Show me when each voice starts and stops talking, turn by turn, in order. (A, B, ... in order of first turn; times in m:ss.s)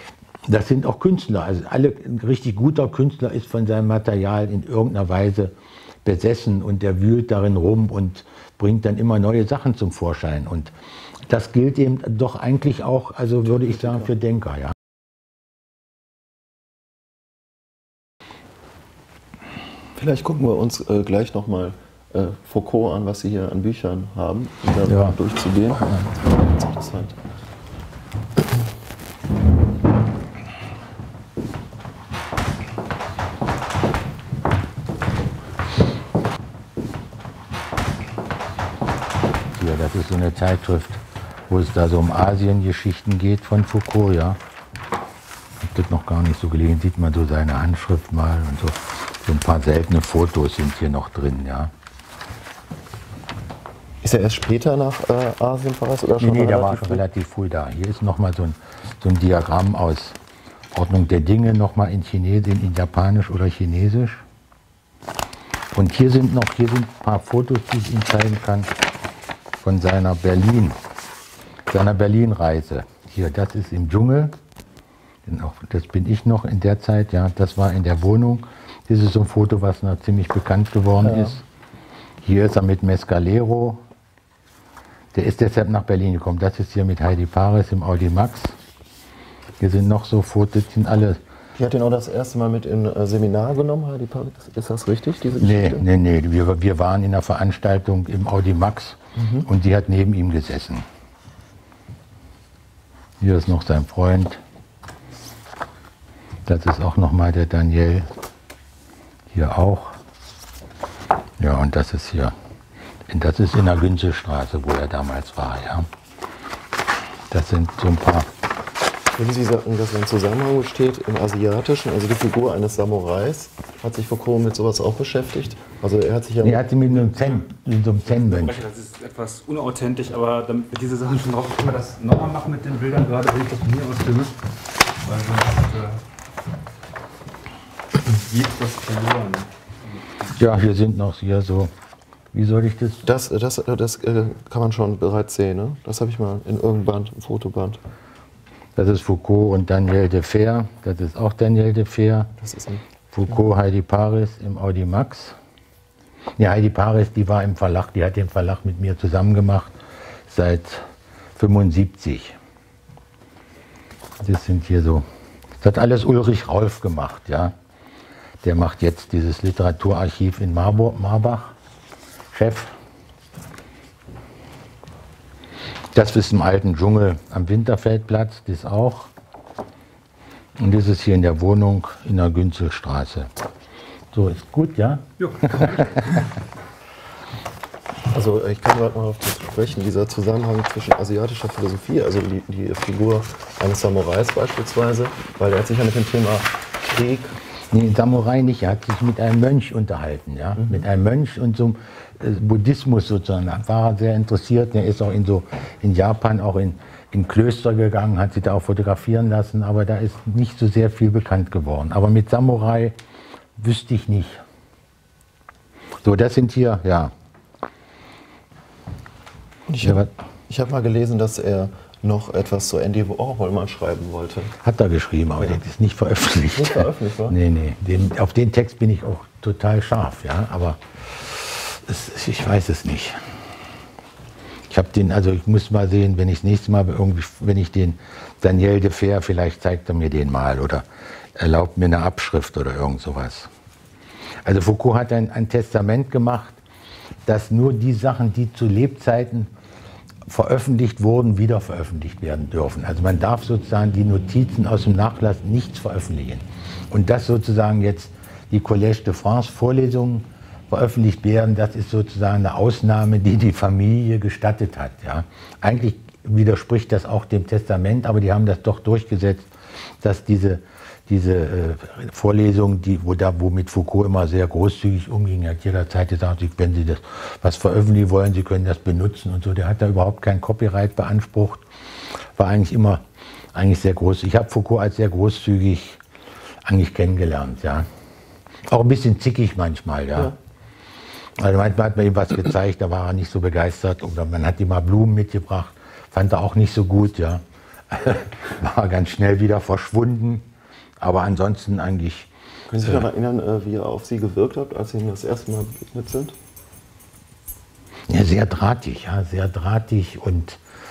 0:00.5-0:05.5 A
0:06.0-0:10.7 A
0:11.3-0:14.8 A
0:20.0-0:27.2 B
0:24.9-0:25.2 A
0:39.6-0:44.4 A
0:45.6-0:51.7 A
0:54.0-0:57.0 B
0:56.2-1:00.2 A
1:00.7-1:04.2 A
1:05.7-1:08.7 A
1:09.6-1:10.8 A
1:11.7-1:14.4 A
1:15.3-1:21.4 A
1:21.0-1:21.3 B
1:22.2-1:23.8 A
1:25.1-1:28.6 A
1:29.6-1:31.2 A
1:31.6-1:35.9 B
1:35.4-1:40.9 A
1:43.2-1:44.4 A
1:46.5-1:48.1 A
1:49.3-1:50.0 A
1:51.4-1:52.4 A
1:53.1-1:55.9 A
1:57.3-1:58.3 A
1:59.1-2:06.7 B
2:06.4-2:08.6 A
2:06.9-2:07.4 C
2:08.1-2:14.4 C
2:14.9-2:16.0 C
2:18.0-2:20.4 C
2:20.4-2:21.7 A
2:22.3-2:23.0 A
2:23.0-2:27.8 B
2:28.8-2:32.3 A
2:32.4-2:32.8 B
2:33.1-2:35.4 A
2:36.4-2:39.8 A
2:40.3-2:42.4 A
2:44.2-2:45.0 A
2:45.6-2:47.6 A
2:48.4-2:51.5 A
2:52.3-2:52.7 A
2:55.9-2:59.1 A
3:00.6-3:03.3 A
3:04.1-3:06.1 A
3:05.4-3:06.0 C
3:08.1-3:17.4 B
3:17.7-3:33.0 A
3:33.6-3:34.4 A
3:36.0-3:37.1 A
3:39.7-3:44.6 B
3:39.8-3:40.1 A
3:44.6-3:53.2 A
3:46.5-3:47.4 B
3:54.7-4:00.8 A
4:01.4-4:03.5 A
4:04.4-4:06.6 A
4:07.3-4:09.5 A
4:10.3-4:29.5 A
4:30.0-4:41.6 A
4:42.4-4:43.0 A
4:43.5-4:46.0 A
4:46.6-4:47.9 A
4:48.7-4:50.3 A
4:51.4-5:00.5 A
5:01.0-5:02.3 A
5:02.7-5:06.4 B
5:08.1-5:10.6 A